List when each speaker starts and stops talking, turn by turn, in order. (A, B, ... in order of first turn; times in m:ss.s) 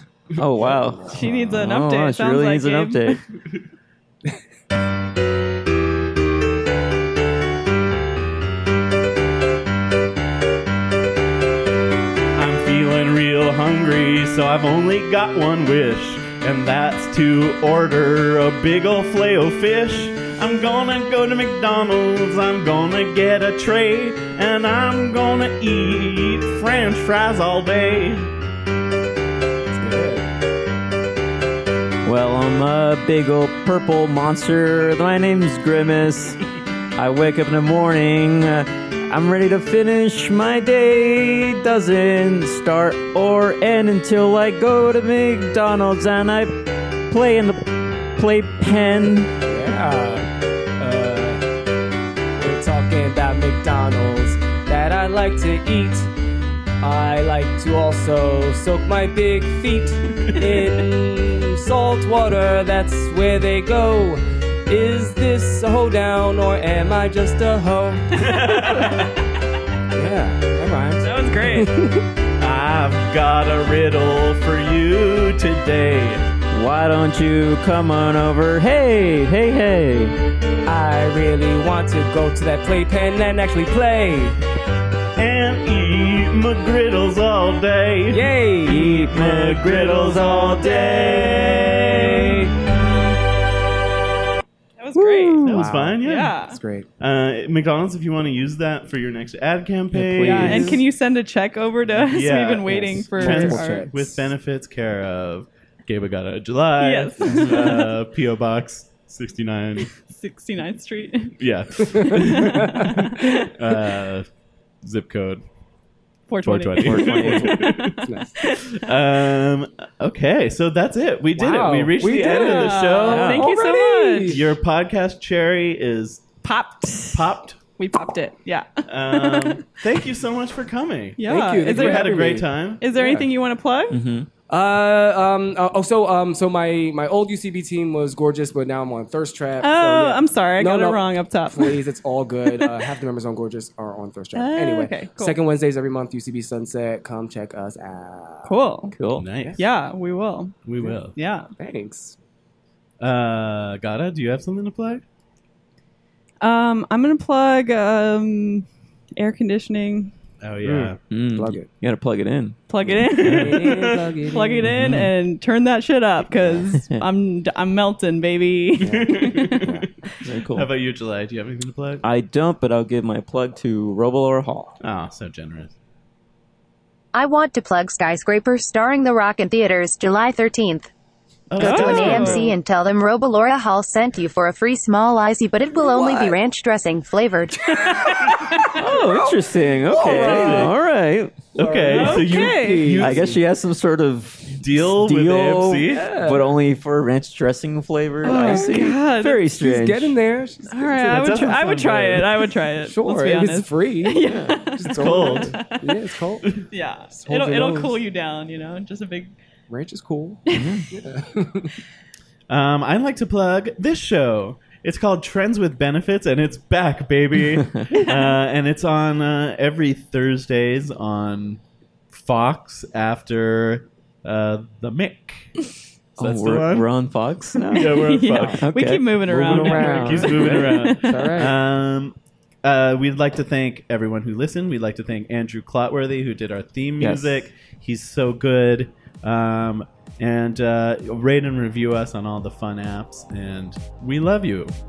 0:00.4-0:03.2 A
0:00.6-0:01.7 B
0:01.1-0:03.2 C
0:12.4-0:28.3 D
0:29.7-0:30.3 B
0:32.0-0:36.4 A
0:37.0-0:49.3 A
0:49.4-0:51.4 B
0:52.4-0:56.1 B
0:56.8-1:08.2 B
1:08.1-1:09.1 D
1:09.9-1:12.1 B
1:11.0-1:11.7 C
1:12.4-1:16.2 D
1:16.5-1:20.2 A
1:20.6-1:24.4 B
1:25.2-1:32.8 D
1:28.1-1:29.3 B
1:28.7-1:31.0 A
1:30.1-1:32.5 B
1:34.8-1:35.4 C
1:35.0-1:35.7 A
1:35.4-1:36.4 D
1:35.6-1:36.9 B
1:36.0-1:36.6 C
1:37.0-1:40.8 D
1:39.9-1:40.8 A
1:40.2-1:43.9 C
1:42.1-1:49.9 D
1:42.7-1:44.3 B
1:46.8-1:47.9 C
1:47.2-1:47.5 B
1:50.1-1:51.4 C
1:51.4-1:54.3 D
1:52.1-1:52.7 B
1:52.2-1:53.4 C
1:54.8-1:55.4 D
1:56.3-1:57.7 C
1:56.4-1:58.0 D
1:56.8-1:57.6 A
1:57.2-1:58.4 B
1:58.5-1:58.8 C
1:58.7-2:03.4 D
2:01.3-2:04.5 B
2:02.2-2:04.4 C
2:03.1-2:03.4 A
2:04.2-2:06.3 D
2:06.4-2:09.6 C
2:07.1-2:07.6 D
2:08.9-2:12.9 D
2:11.2-2:12.2 C
2:11.2-2:13.3 B
2:12.8-2:14.0 C
2:13.9-2:14.3 A
2:14.5-2:28.6 B
2:19.6-2:21.8 C
2:22.5-2:22.7 C
2:24.3-2:25.4 C
2:28.4-2:28.9 C
2:28.9-2:29.3 A
2:29.2-2:29.6 D
2:29.4-2:29.6 B
2:29.6-2:30.5 C
2:30.6-2:31.2 D
2:31.2-2:31.5 C
2:31.6-2:32.2 B
2:33.0-2:35.0 D
2:36.4-2:38.7 C
2:39.2-2:40.1 C
2:40.4-2:41.0 D
2:40.6-2:41.7 B
2:41.1-2:43.7 A
2:42.7-2:49.7 C
2:42.9-2:44.7 B
2:43.4-2:44.1 D
2:44.6-2:45.1 A
2:44.6-2:45.0 D
2:48.8-2:49.9 B
2:48.8-2:49.8 D
2:50.2-2:50.7 A
2:50.5-2:52.0 D
2:52.0-2:54.8 A
2:54.8-2:55.7 D
2:57.1-3:00.9 E
3:01.5-3:02.5 D
3:01.6-3:02.6 C
3:01.6-3:07.8 E
3:05.7-3:06.4 B
3:07.7-3:10.8 B
3:08.6-3:09.2 C
3:08.7-3:11.5 A
3:10.1-3:10.8 D
3:11.6-3:13.4 B
3:11.6-3:13.4 D
3:11.9-3:13.0 C
3:12.1-3:20.2 A
3:14.5-3:16.1 D
3:15.9-3:16.6 B
3:18.2-3:18.9 B
3:18.2-3:19.4 C
3:19.6-3:21.9 B
3:20.7-3:25.9 C
3:21.1-3:22.3 D
3:22.8-3:26.5 B
3:24.2-3:24.7 A
3:24.9-3:25.6 D
3:26.6-3:29.3 C
3:27.1-3:28.0 B
3:29.7-3:31.8 B
3:30.5-3:30.8 C
3:30.5-3:30.9 A
3:32.5-3:41.6 D
3:38.0-3:38.2 C
3:42.1-3:45.5 D
3:46.2-3:46.9 D
3:46.2-3:50.3 A
3:47.7-3:51.3 C
3:47.7-3:48.6 D
3:48.3-3:48.6 B
3:49.3-3:51.6 B
3:49.8-4:04.8 D
3:57.0-3:57.4 A